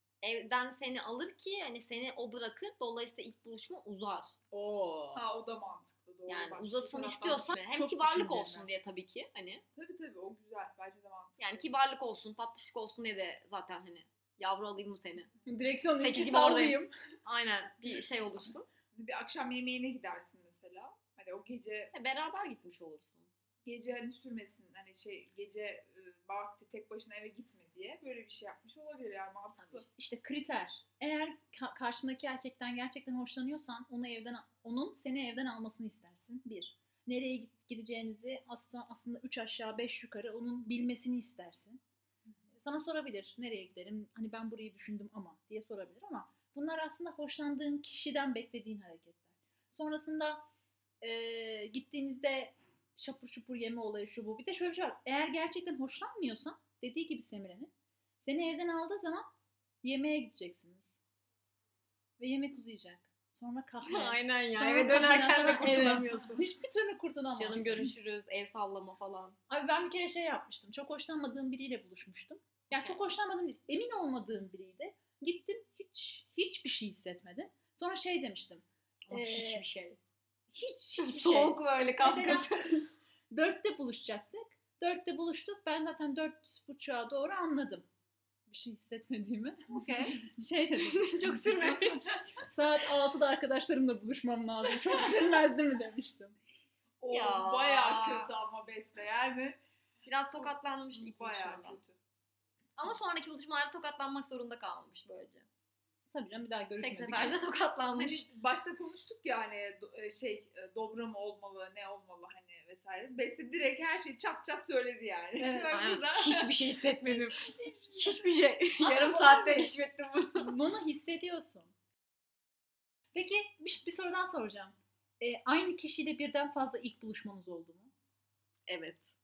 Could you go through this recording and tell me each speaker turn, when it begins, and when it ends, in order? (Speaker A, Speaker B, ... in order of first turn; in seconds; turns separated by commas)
Speaker A: 0.2-4.3, Speaker B: 4.5-5.3, Speaker C: 5.2-8.6, Speaker A: 6.3-9.6, Speaker B: 7.7-8.7, Speaker C: 9.8-11.7, Speaker A: 11.4-15.3, Speaker B: 15.5-16.9, Speaker A: 16.0-18.7, Speaker C: 18.9-21.9, Speaker A: 21.9-23.3, Speaker C: 23.6-29.9, Speaker B: 29.7-41.8, Speaker B: 42.6-50.5, Speaker B: 51.0-57.7, Speaker B: 58.2-59.3, Speaker B: 59.8-60.9, Speaker B: 62.2-67.9, Speaker A: 63.9-66.4, Speaker A: 67.4-69.4, Speaker B: 69.5-79.6, Speaker A: 79.1-80.0, Speaker B: 80.5-82.5, Speaker A: 81.0-82.9, Speaker B: 83.3-87.9, Speaker B: 88.5-91.4, Speaker A: 89.7-90.2, Speaker A: 90.8-92.1, Speaker C: 91.6-92.3, Speaker B: 92.4-96.3, Speaker C: 97.0-99.6, Speaker A: 97.1-98.3, Speaker A: 100.1-101.8, Speaker C: 100.4-102.0, Speaker A: 102.8-105.5, Speaker B: 106.1-107.4, Speaker A: 106.8-108.2, Speaker C: 108.0-116.6, Speaker B: 115.4-115.8, Speaker A: 115.7-117.4, Speaker C: 117.1-118.1, Speaker A: 118.0-120.5, Speaker B: 118.8-119.7, Speaker B: 120.3-121.7, Speaker B: 123.1-127.9, Speaker A: 128.7-129.1